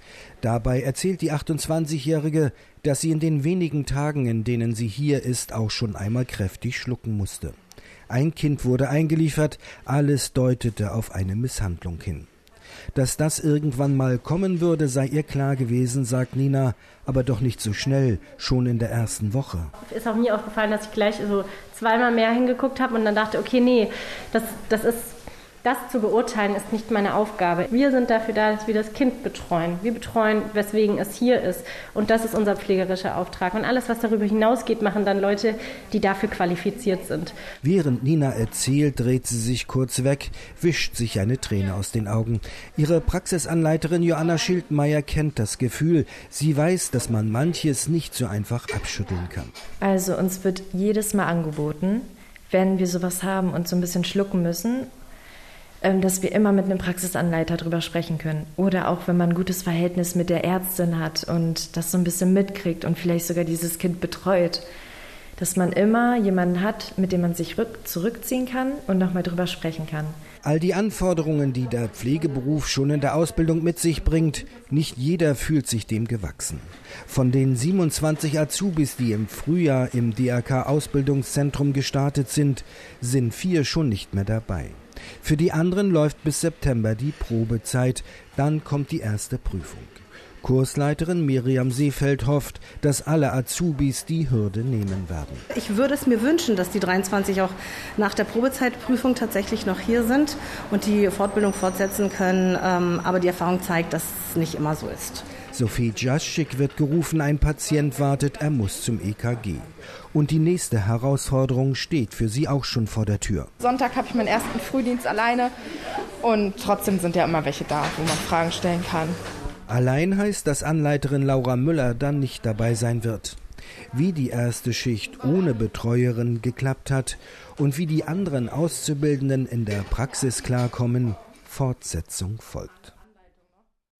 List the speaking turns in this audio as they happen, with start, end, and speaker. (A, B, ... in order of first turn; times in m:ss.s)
0:00.4-0:07.5 A
0:08.1-0:12.3 A
0:12.9-0:19.7 A
0:19.8-0:37.3 B
0:37.6-0:49.5 A
0:49.8-0:54.9 C
0:55.8-1:04.6 C
1:05.4-1:10.1 C
1:10.4-1:35.4 A
1:35.5-1:45.3 D
1:45.5-1:53.5 A
1:53.6-1:55.5 E
1:56.2-1:59.2 E
1:59.7-2:03.4 A
2:03.9-2:12.9 A